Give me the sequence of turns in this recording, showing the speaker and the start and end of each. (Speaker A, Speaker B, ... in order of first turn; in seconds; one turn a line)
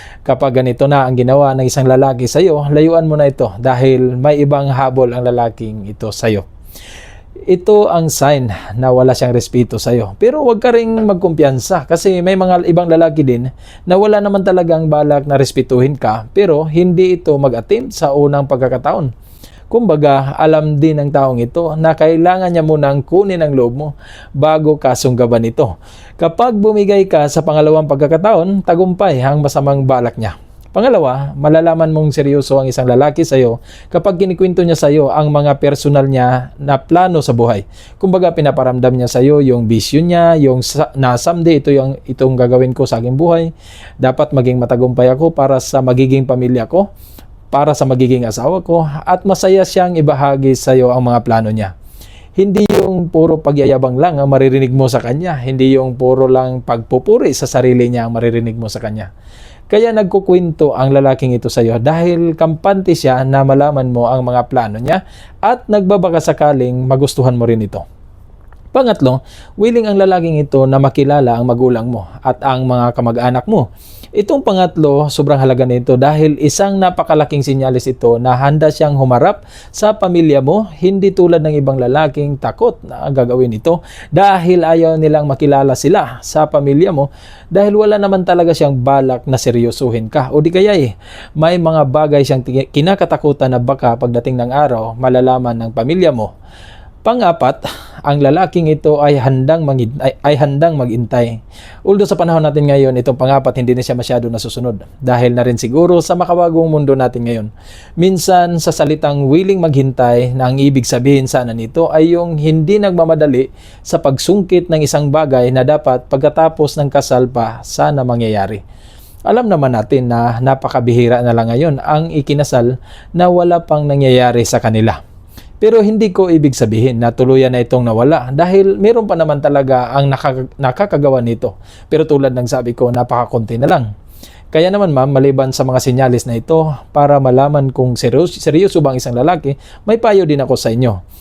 Speaker A: 0.2-6.5
Speaker A: 7.5-19.1
Speaker A: 19.7-43.5
Speaker A: 44.0-46.9
Speaker A: 47.5-51.7
Speaker A: 52.4-59.1
Speaker A: 59.7-67.8
Speaker A: 68.7-96.3
Speaker A: 97.0-118.6
Speaker A: 119.3-125.0
Speaker A: 125.6-133.9
Speaker A: 134.5-141.0